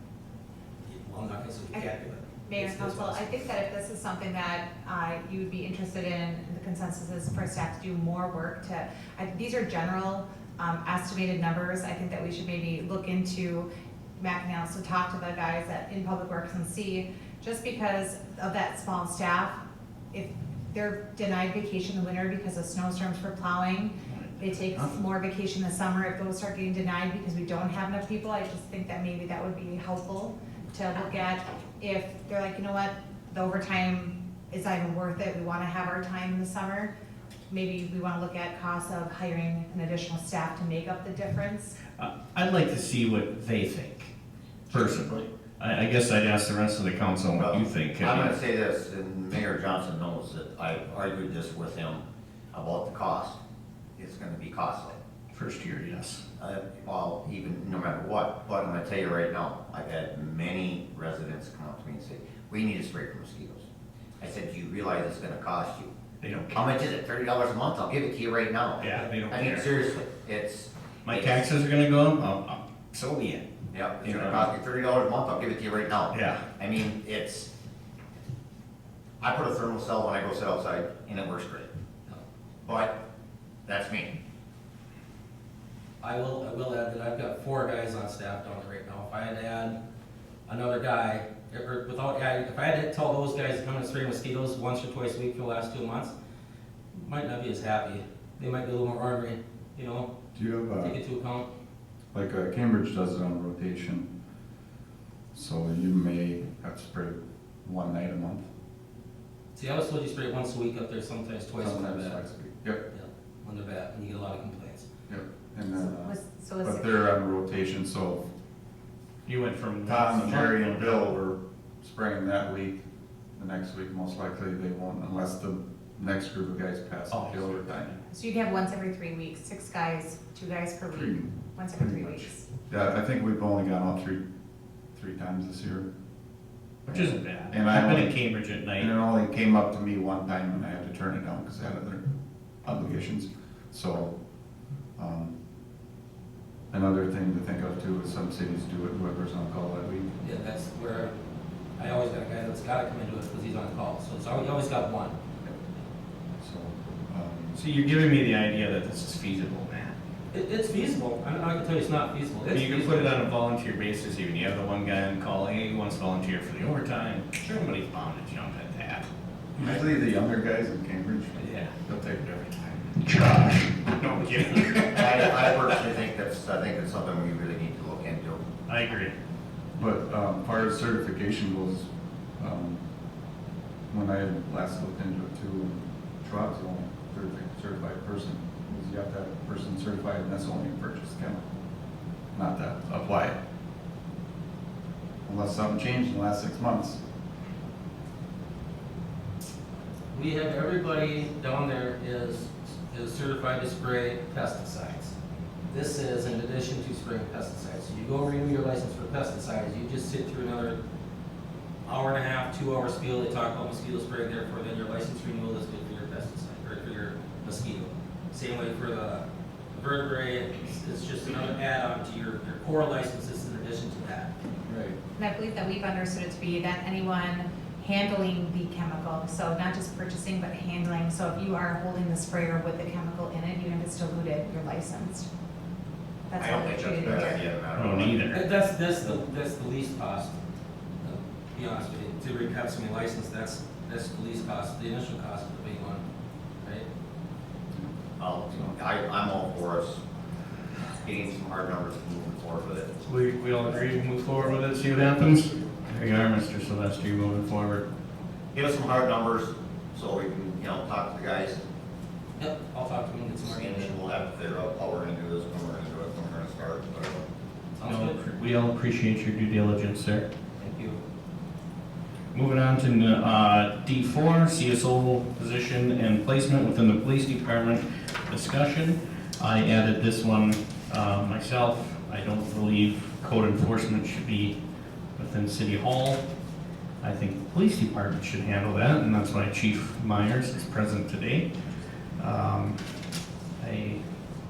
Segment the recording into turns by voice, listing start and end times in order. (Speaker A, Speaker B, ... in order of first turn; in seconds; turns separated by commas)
Speaker A: 0.8-3.4, Speaker B: 1.7-13.7, Speaker B: 14.2-19.6, Speaker B: 20.1-36.9, Speaker C: 24.1-24.9, Speaker B: 37.5-41.8, Speaker C: 42.0-44.1, Speaker C: 44.7-48.4, Speaker D: 47.4-53.4, Speaker D: 54.0-55.0, Speaker C: 55.3-56.2, Speaker D: 56.4-63.6, Speaker D: 64.2-65.9, Speaker C: 66.2-66.6, Speaker D: 66.5-71.5, Speaker C: 68.8-69.7, Speaker C: 71.1-73.5, Speaker D: 73.7-77.5, Speaker C: 74.0-74.5, Speaker C: 76.1-76.4, Speaker D: 79.2-81.7, Speaker D: 82.7-83.0, Speaker D: 83.7-84.2, Speaker A: 86.0-89.8, Speaker A: 90.5-96.1, Speaker A: 96.9-100.1, Speaker E: 100.3-101.0, Speaker A: 100.8-101.5, Speaker E: 102.1-104.1, Speaker E: 105.3-108.5, Speaker A: 109.5-112.2, Speaker E: 111.6-112.8, Speaker A: 112.9-114.9, Speaker E: 115.1-118.2, Speaker B: 115.7-116.9, Speaker C: 119.3-121.1, Speaker E: 119.8-122.8, Speaker E: 123.4-127.9, Speaker C: 127.1-128.0, Speaker B: 128.1-132.5, Speaker E: 130.9-134.2, Speaker E: 134.9-135.9, Speaker E: 136.9-138.2, Speaker C: 136.9-138.9, Speaker E: 138.7-142.1, Speaker E: 142.6-144.1, Speaker E: 145.0-145.3, Speaker E: 146.7-150.1, Speaker A: 150.2-151.1, Speaker A: 151.8-155.1, Speaker E: 156.4-157.6, Speaker C: 157.6-159.9, Speaker A: 160.3-163.2, Speaker C: 162.5-169.1, Speaker E: 169.6-173.3, Speaker C: 171.4-171.8, Speaker C: 173.1-175.3, Speaker D: 174.9-178.4, Speaker C: 178.7-179.2, Speaker E: 179.8-182.8, Speaker E: 183.9-191.4, Speaker E: 192.3-193.4, Speaker E: 195.3-197.0, Speaker A: 200.1-205.2, Speaker A: 205.7-210.8, Speaker A: 211.8-224.9, Speaker B: 225.2-235.3, Speaker B: 236.3-237.4, Speaker D: 236.4-238.4, Speaker C: 237.8-238.4, Speaker A: 238.3-240.4, Speaker A: 241.0-246.1, Speaker A: 246.6-246.9, Speaker D: 248.2-250.0, Speaker D: 250.8-253.0, Speaker C: 253.1-257.9, Speaker D: 258.5-261.6, Speaker A: 262.4-264.0, Speaker D: 263.4-267.2, Speaker A: 267.8-268.2, Speaker C: 267.9-270.3, Speaker A: 270.6-271.0, Speaker C: 272.3-284.6, Speaker C: 285.2-286.2, Speaker C: 287.0-291.5, Speaker C: 292.2-292.8, Speaker C: 293.6-294.0